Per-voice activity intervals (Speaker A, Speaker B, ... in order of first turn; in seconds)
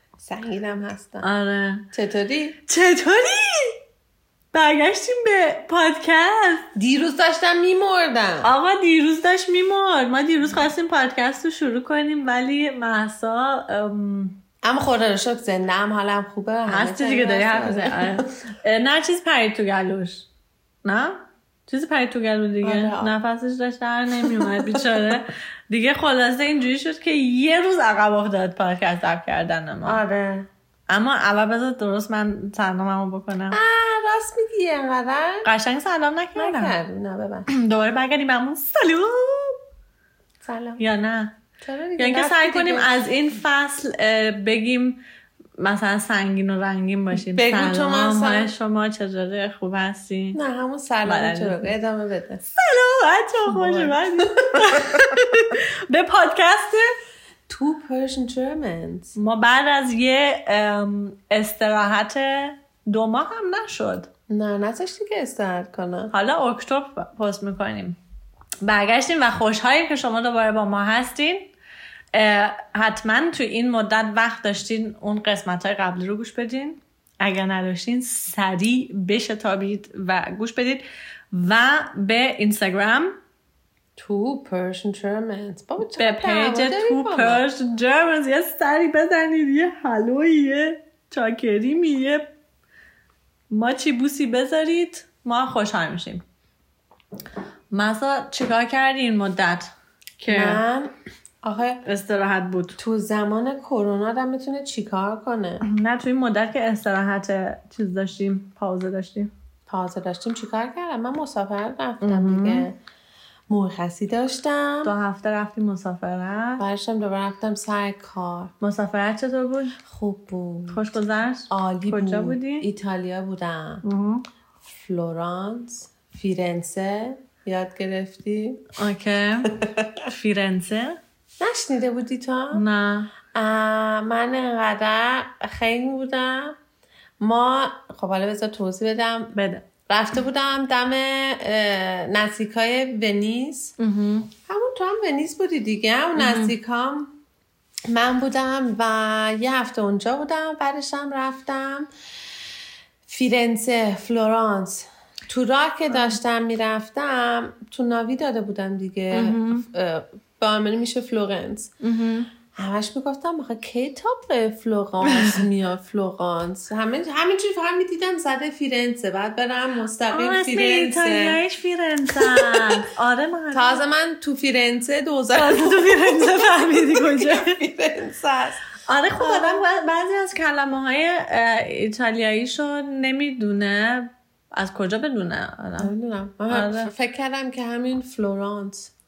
Speaker A: 0.2-1.3, 1.9-2.6, 6.8-8.5, 14.6-18.3, 22.6-23.1, 24.2-25.1, 29.8-30.5, 33.5-35.5, 36.4-37.5, 40.4-40.8, 41.6-42.9, 47.1-48.5, 50.3-52.4, 53.5-55.2, 57.5-59.1, 64.3-66.1, 84.0-87.4, 100.3-101.8, 102.8-105.6, 109.7-112.7, 113.5-114.9, 116.6-118.5, 119.8-120.8, 121.5-123.8, 124.7-128.7, 129.4-130.1, 131.4-132.6, 133.3-136.6, 137.2-139.3, 139.9-143.8, 144.5-147.1, 147.9-151.9, 153.1-161.7, 162.5-171.4, 172.1-172.9, 173.5-178.6, 179.1-179.6, 185.8-188.9
Speaker B: 1.2-1.8, 2.6-3.8, 4.5-6.7, 8.4-14.4, 16.7-20.2, 20.8-30.0, 30.9-33.6, 35.4-36.8, 37.5-39.6, 40.8-41.4, 42.0-45.0, 45.6-50.4, 51.0-51.7, 52.6-56.9, 59.1-64.1, 66.1-68.0, 68.6-71.5, 72.1-83.2, 86.0-92.3, 93.5-96.2, 97.7-100.6, 101.8-102.8, 105.6-109.3, 112.0-112.7, 114.8-116.6, 118.6-119.8, 120.7-122.7, 123.8-124.2, 128.8-129.5, 130.1-131.0, 132.5-133.1, 139.3-139.7, 143.8-144.3, 146.2-146.5, 159.1-159.6, 161.8-162.3, 165.1-165.4, 170.1-173.8, 175.3-177.6, 178.9-185.9, 186.5-186.9